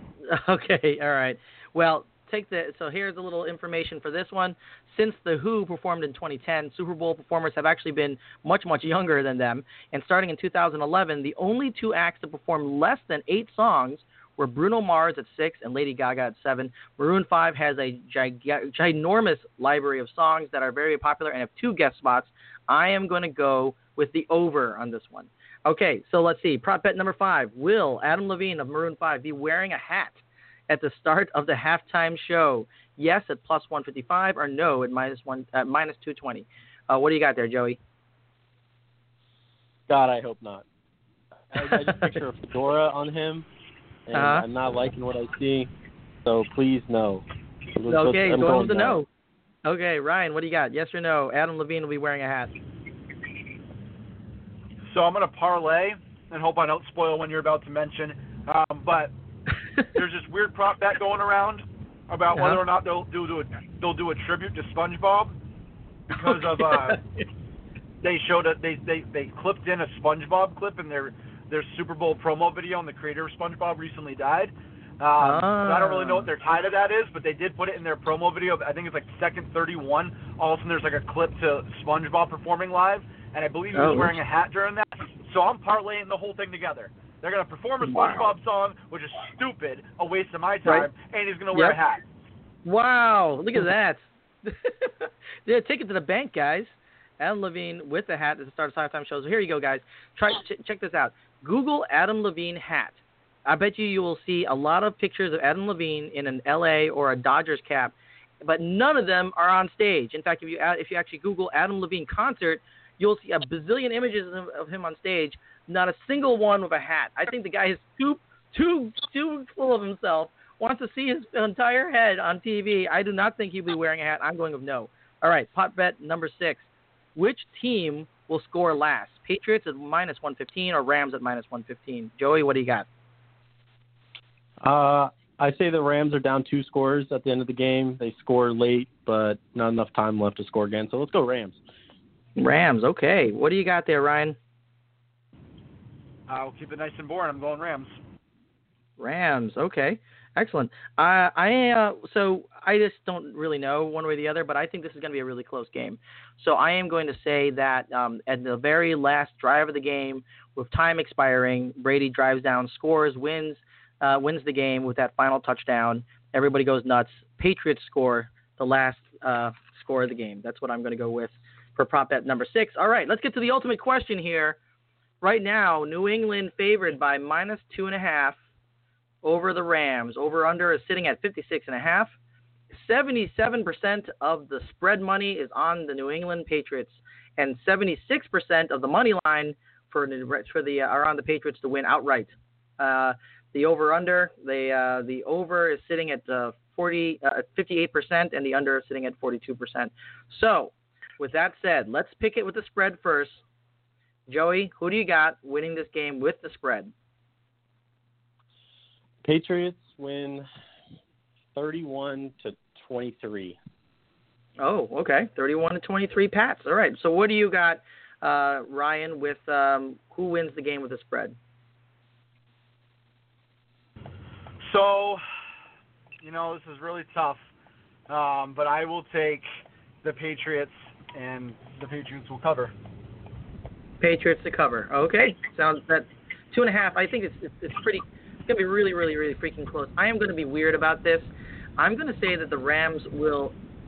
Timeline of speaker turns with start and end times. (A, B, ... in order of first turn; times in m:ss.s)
0:00.2-0:37.8 A
0:39.9-0:40.6 B
0:41.5-0:43.4 B
0:41.6-0:42.2 A
0:44.1-0:45.7 B
0:44.1-0:44.4 A
0:46.2-0:47.2 B
0:47.7-0:49.0 B
0:47.9-0:49.0 A
0:49.6-0:52.5 A
0:54.9-0:59.1 C
0:59.8-1:05.3 C
1:02.3-1:02.6 A
1:06.1-1:07.0 C
1:06.2-1:07.0 A
1:08.0-1:32.0 C
1:15.2-1:16.3 A
1:23.7-1:24.2 A
1:27.8-1:28.3 A
1:32.6-2:12.9 A
2:14.6-2:21.6 B
2:22.4-2:24.4 A
2:26.3-2:27.9 C
2:29.0-2:54.6 A
2:55.2-2:58.4 A
2:59.2-3:02.1 A
3:02.7-3:23.4 A
3:24.3-3:26.9 A
3:29.2-3:30.5 B
3:31.5-3:33.6 B
3:34.6-3:41.4 A
3:44.6-3:45.2 C
3:46.2-3:47.4 C
3:48.1-3:49.5 C
3:50.0-3:52.7 C
3:54.0-4:03.5 A